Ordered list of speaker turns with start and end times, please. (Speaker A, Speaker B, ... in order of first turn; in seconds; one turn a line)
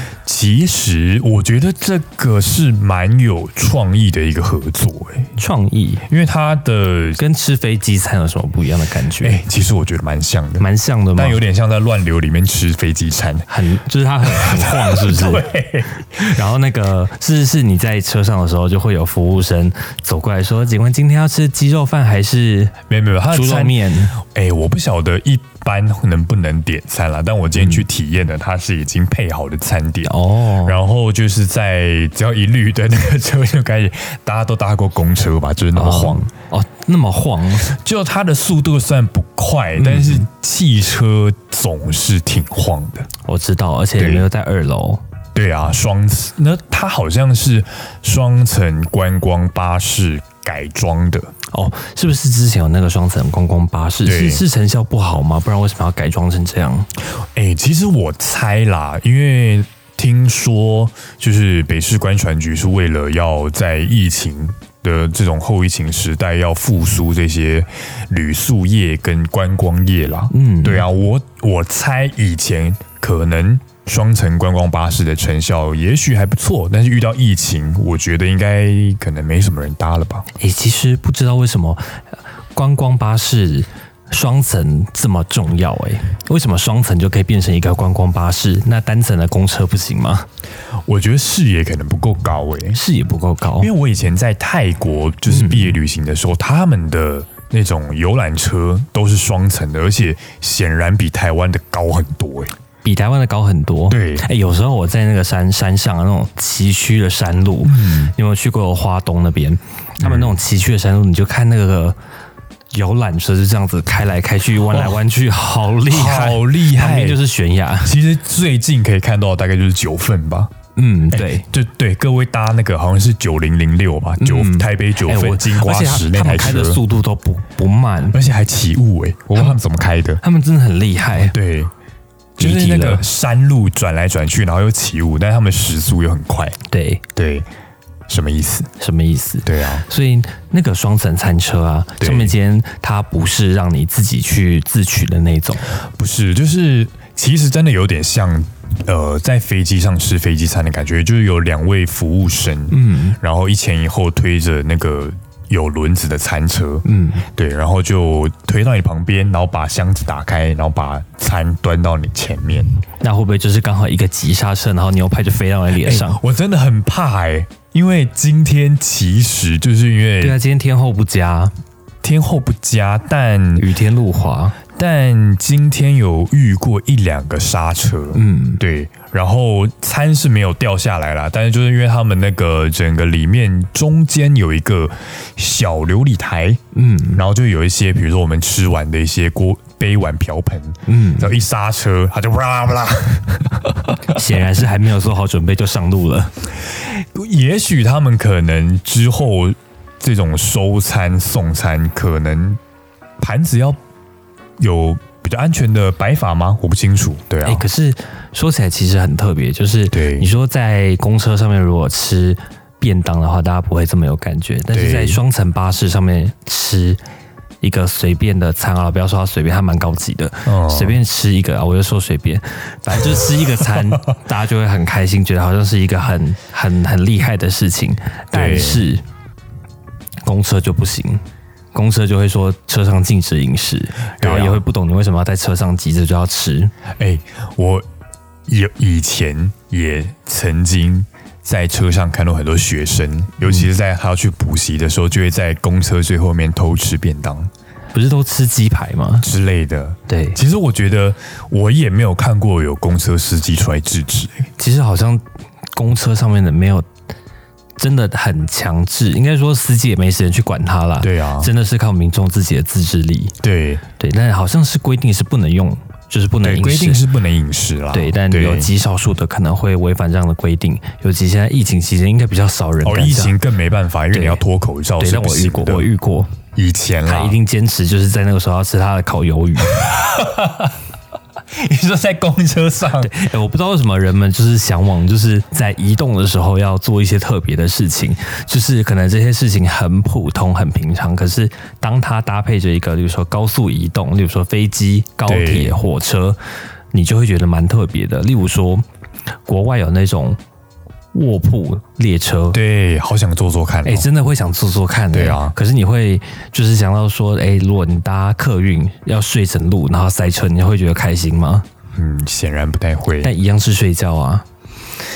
Speaker A: 0.2-5.3
Speaker B: 5.4-6.0
Speaker A: 6.1-7.2
Speaker B: 7.2-9.4
Speaker A: 9.2-13.5
Speaker B: 10.6-11.4
Speaker B: 13.5-15.5
Speaker A: 14.3-16.4
Speaker B: 16.2-22.8
Speaker A: 22.9-36.3
Speaker B: 23.3-24.1
Speaker B: 27.6-27.8
Speaker B: 30.1-30.8
Speaker B: 35.8-37.7
Speaker A: 37.6-43.1
Speaker B: 39.8-40.2
Speaker B: 43.2-45.0
Speaker A: 44.0-44.2
Speaker A: 45.4-51.3
Speaker B: 51.5-56.9
Speaker A: 54.0-54.4
Speaker A: 57.2-80.3
Speaker B: 70.3-70.9
Speaker B: 80.4-82.0
Speaker B: 82.5-90.3
Speaker A: 90.9-92.8
Speaker B: 92.7-93.7
Speaker A: 93.6-102.5
Speaker B: 95.3-95.8
Speaker B: 102.8-112.0
Speaker A: 103.9-104.3
Speaker A: 107.6-108.1
Speaker A: 110.0-110.4
Speaker B: 112.7-118.0
Speaker A: 114.7-115.0
Speaker A: 115.9-117.2
Speaker A: 117.8-120.5
Speaker B: 120.8-121.5
Speaker A: 121.1-126.8
Speaker B: 124.2-128.2
Speaker A: 128.1-130.2
Speaker B: 130.2-131.4
Speaker A: 131.2-131.7
Speaker A: 132.4-136.6
Speaker B: 132.4-133.0
Speaker B: 136.7-137.0
Speaker A: 137.2-137.5
Speaker A: 138.1-138.7
Speaker B: 138.8-145.8
Speaker A: 139.4-139.8
Speaker A: 142.0-142.3
Speaker A: 145.8-162.7
Speaker B: 152.7-153.2
Speaker B: 156.8-157.3
Speaker B: 163.0-166.2
Speaker A: 165.8-170.4
Speaker B: 170.2-171.5
Speaker A: 172.0-173.7
Speaker B: 173.6-174.6
Speaker A: 174.8-186.6
Speaker B: 178.1-178.6
Speaker B: 186.7-187.2
Speaker A: 187.1-193.8
Speaker B: 190.9-191.3
Speaker B: 194.1-196.3
Speaker A: 196.8-202.6
Speaker A: 203.2-203.8
Speaker A: 204.6-207.6
Speaker B: 207.4-217.0
Speaker A: 209.9-210.3
Speaker A: 214.7-215.2
Speaker B: 217.6-229.0
Speaker A: 220.4-221.0
Speaker A: 228.3-228.8
Speaker B: 230.2-231.2
Speaker B: 231.7-236.7
Speaker A: 234.2-234.6
Speaker A: 237.0-237.8
Speaker A: 238.5-247.5
Speaker B: 247.9-249.3
Speaker A: 249.2-254.5
Speaker B: 250.1-250.4
Speaker B: 254.6-255.2
Speaker B: 255.7-256.9
Speaker B: 257.8-263.4
Speaker A: 261.0-261.5
Speaker A: 263.4-263.8
Speaker B: 264.0-267.0
Speaker A: 266.4-268.7
Speaker B: 267.9-273.4
Speaker A: 272.8-275.9
Speaker B: 274.1-274.4
Speaker B: 275.0-276.3
Speaker A: 276.6-277.4
Speaker B: 277.1-279.8
Speaker A: 279.7-280.7
Speaker A: 281.5-283.1
Speaker B: 283.0-296.4
Speaker A: 295.3-295.8
Speaker B: 296.9-298.9
Speaker B: 299.5-300.4
Speaker B: 301.1-302.6
Speaker A: 302.5-304.1
Speaker B: 303.9-311.7
Speaker A: 305.1-305.6
Speaker A: 312.0-313.3
Speaker B: 313.2-314.5